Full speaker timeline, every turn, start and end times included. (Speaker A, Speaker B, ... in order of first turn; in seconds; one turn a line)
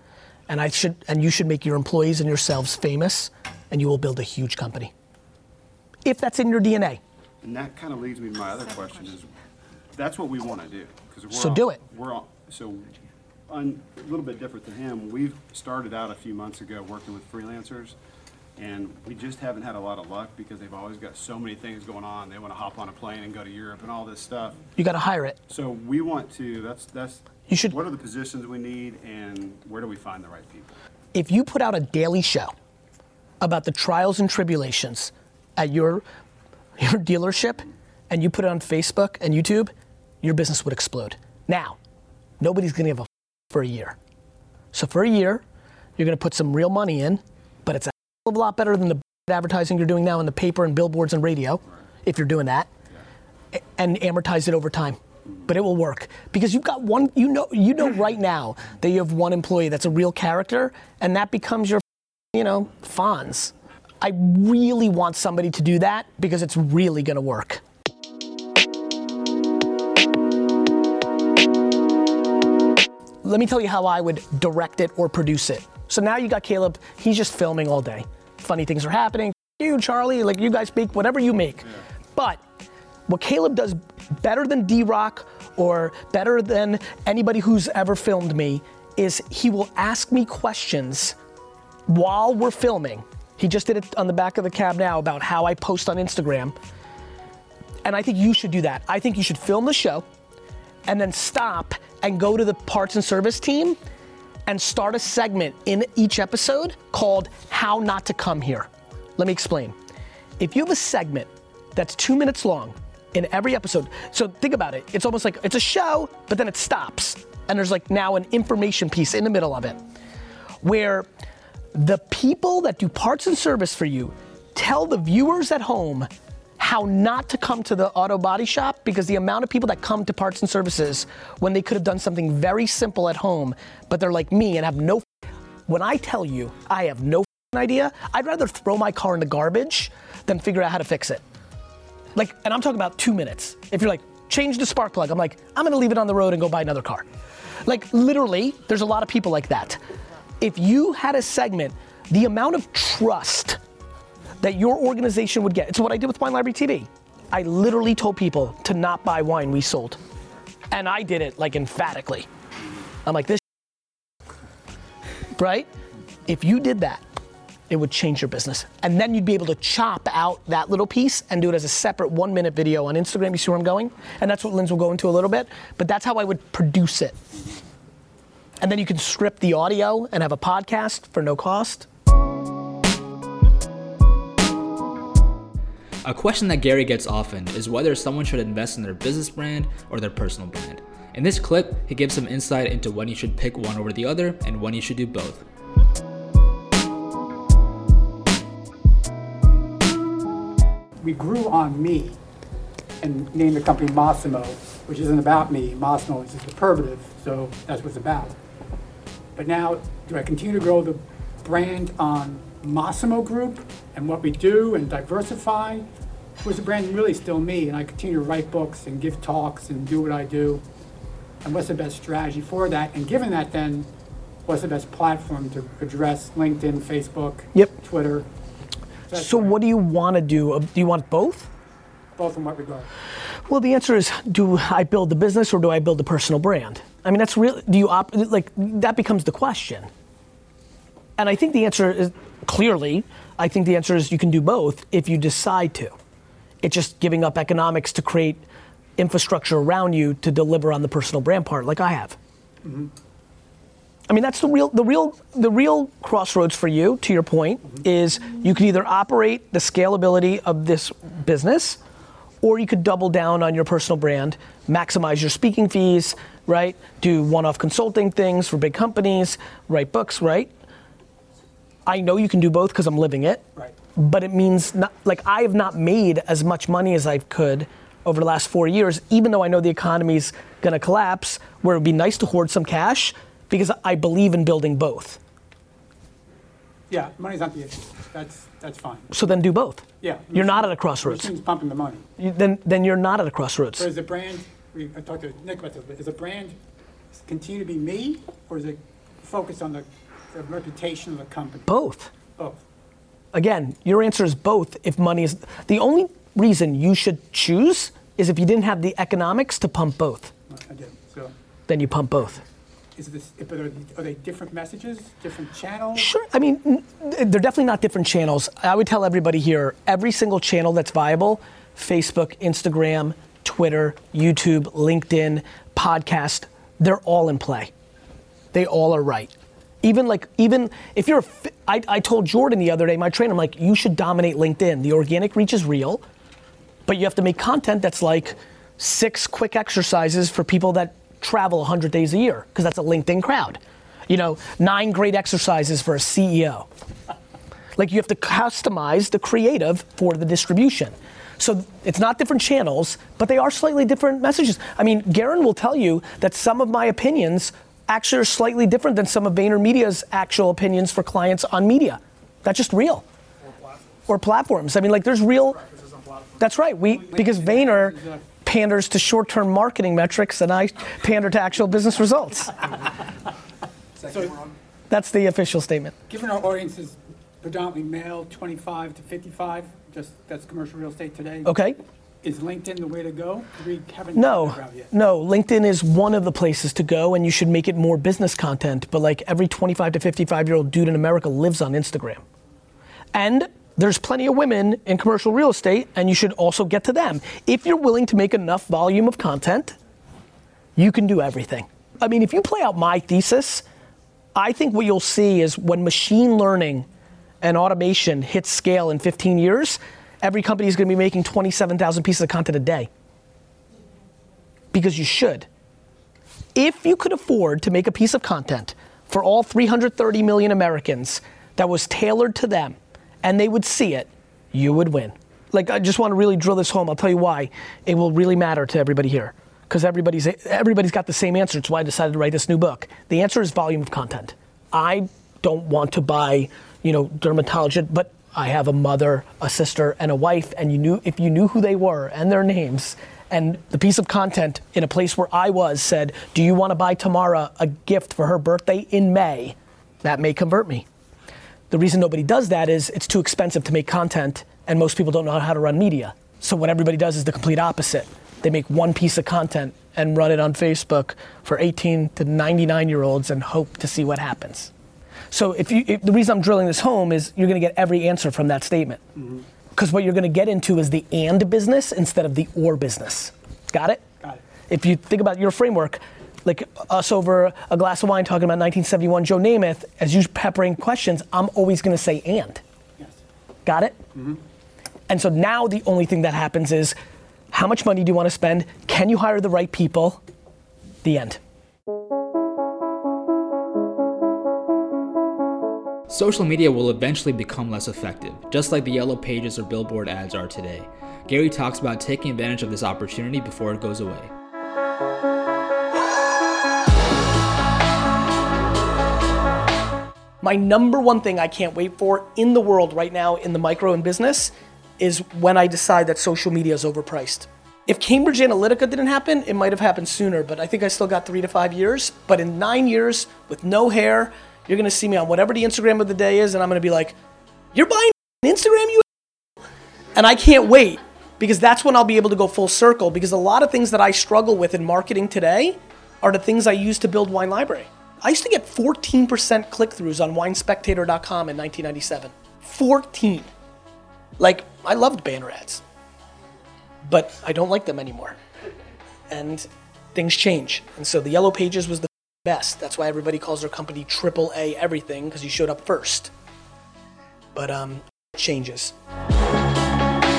Speaker A: 0.5-4.9
Speaker A: 6.0-7.0
Speaker B: 7.4-9.3
Speaker B: 9.9-12.9
Speaker A: 11.3-11.8
Speaker B: 13.5-17.9
Speaker B: 18.6-24.6
Speaker A: 24.8-25.4
Speaker B: 25.5-30.7
Speaker A: 27.5-27.8
Speaker A: 31.1-32.5
Speaker A: 33.4-36.0
Speaker A: 36.8-41.8
Speaker A: 42.4-44.0
Speaker A: 44.7-45.4
Speaker A: 46.0-52.7
Speaker A: 53.5-67.6
Speaker A: 73.2-82.4
Speaker A: 83.1-91.2
Speaker A: 91.9-96.5
Speaker A: 97.8-100.0
Speaker A: 100.9-103.8
Speaker A: 104.5-109.7
Speaker A: 110.4-119.8
Speaker A: 120.6-121.1
Speaker A: 121.7-126.1
Speaker A: 126.6-135.0
Speaker A: 135.7-141.2
Speaker A: 142.1-147.0
Speaker A: 147.6-149.8
Speaker A: 150.4-153.6
Speaker A: 154.4-160.0
Speaker A: 160.7-162.3
Speaker A: 163.0-163.4
Speaker A: 165.4-165.7
Speaker A: 166.2-167.0
Speaker A: 167.7-177.2
Speaker A: 178.6-181.9
Speaker C: 186.0-195.4
Speaker D: 201.0-202.2
Speaker D: 203.0-208.4
Speaker D: 209.3-215.9
Speaker D: 216.4-220.6
Speaker D: 221.4-223.9
Speaker D: 224.4-228.3
Speaker D: 229.1-229.5
Speaker A: 229.1-231.5
Speaker D: 232.2-232.9
Speaker A: 233.5-239.9
Speaker A: 241.2-245.9
Speaker A: 246.6-248.4
Speaker A: 249.0-252.2
Speaker D: 252.6-252.9
Speaker A: 254.1-261.8
Speaker A: 262.4-270.5
Speaker A: 271.9-273.4
Speaker A: 273.9-285.2
Speaker D: 286.9-289.1
Speaker A: 289.1-291.3
Speaker D: 290.0-292.0
Speaker A: 292.2-293.9
Speaker D: 293.8-296.6
Speaker D: 297.1-301.7
Speaker A: 301.7-302.1
Speaker D: 302.4-302.6
Speaker A: 303.3-310.3
Speaker D: 310.5-311.3
Speaker A: 311.7-312.4
Speaker D: 312.9-316.1
Speaker A: 315.9-327.7
Speaker A: 328.5-329.3
Speaker A: 329.8-336.0
Speaker A: 336.9-346.7
Speaker A: 347.8-363.0
Speaker A: 364.1-365.7
Speaker A: 366.4-372.6
Speaker D: 367.1-368.2
Speaker D: 374.0-374.5
Speaker A: 374.9-375.9
Speaker D: 376.1-381.5
Speaker A: 381.4-381.8
Speaker D: 382.2-384.9
Speaker A: 384.1-392.2
Speaker A: 393.1-399.8
Speaker A: 400.8-403.6
Speaker A: 404.4-406.9
Speaker A: 407.4-412.9
Speaker A: 414.7-415.5
Speaker A: 416.6-450.8
Speaker A: 451.7-464.7
Speaker A: 465.3-469.0
Speaker D: 469.2-469.4
Speaker A: 469.7-474.0
Speaker A: 474.7-482.6
Speaker A: 483.6-484.0
Speaker D: 484.1-484.4
Speaker A: 485.1-486.9
Speaker A: 487.5-490.2
Speaker A: 491.0-491.4
Speaker C: 496.1-504.3
Speaker A: 510.4-527.1
Speaker A: 527.7-529.0
Speaker A: 530.1-543.5
Speaker A: 544.4-545.8
Speaker A: 547.0-548.4
Speaker A: 549.3-556.3
Speaker A: 557.5-558.9